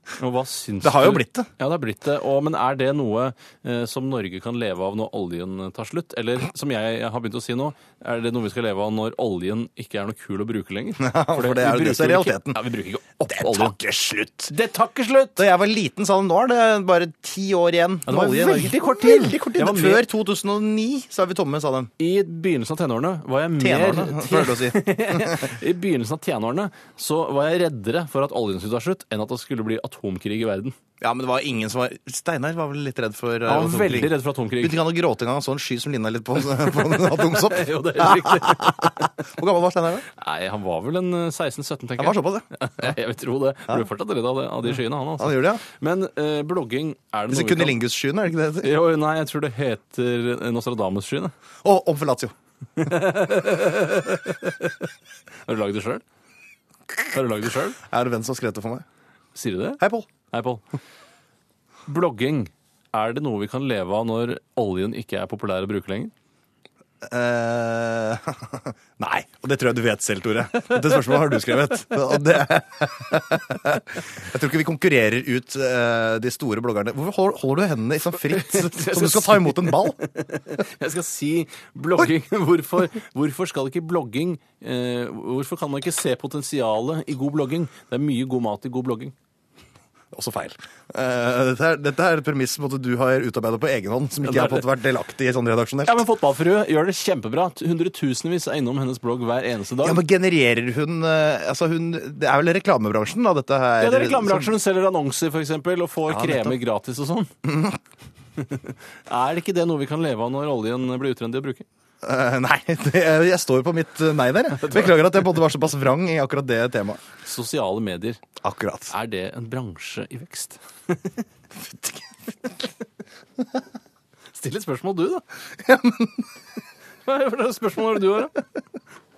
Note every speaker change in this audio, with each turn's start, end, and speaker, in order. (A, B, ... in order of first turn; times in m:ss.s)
0:00.2-0:13.8 A
0:00.8-0:01.5 B
0:11.0-0:12.6 B
0:13.2-0:14.5 B
0:14.5-0:15.4 A
0:15.4-0:21.9 B
0:18.1-0:20.0 A
0:22.0-0:30.8 A
0:23.6-0:25.5 B
0:31.0-0:40.1 B
0:33.5-0:34.8 A
0:36.7-0:39.0 A
0:40.2-0:47.8 A
0:42.0-0:42.8 B
0:45.2-0:45.6 B
0:47.3-0:48.7 B
0:48.6-0:51.3 A
0:51.6-0:52.3 B
0:52.8-0:54.9 A
0:55.5-0:56.0 A
0:57.1-0:57.8 A
0:57.8-0:58.8 B
0:59.4-1:00.6 A
0:59.8-1:00.1 B
1:01.9-1:06.1 A
1:07.0-1:20.0 B
1:18.3-1:29.2 A
1:30.1-1:36.0 B
1:34.2-1:34.7 A
1:35.8-1:40.0 A
1:39.8-1:44.5 B
1:43.8-1:47.3 A
1:46.1-1:46.6 B
1:47.4-1:47.8 B
1:48.4-1:51.7 A
1:52.0-1:57.0 B
1:54.5-1:55.2 A
1:57.2-1:58.2 A
1:58.4-1:58.9 B
1:58.9-2:01.2 A
2:01.6-2:02.1 B
2:04.3-2:05.2 A
2:05.6-2:06.3 B
2:07.0-2:08.4 A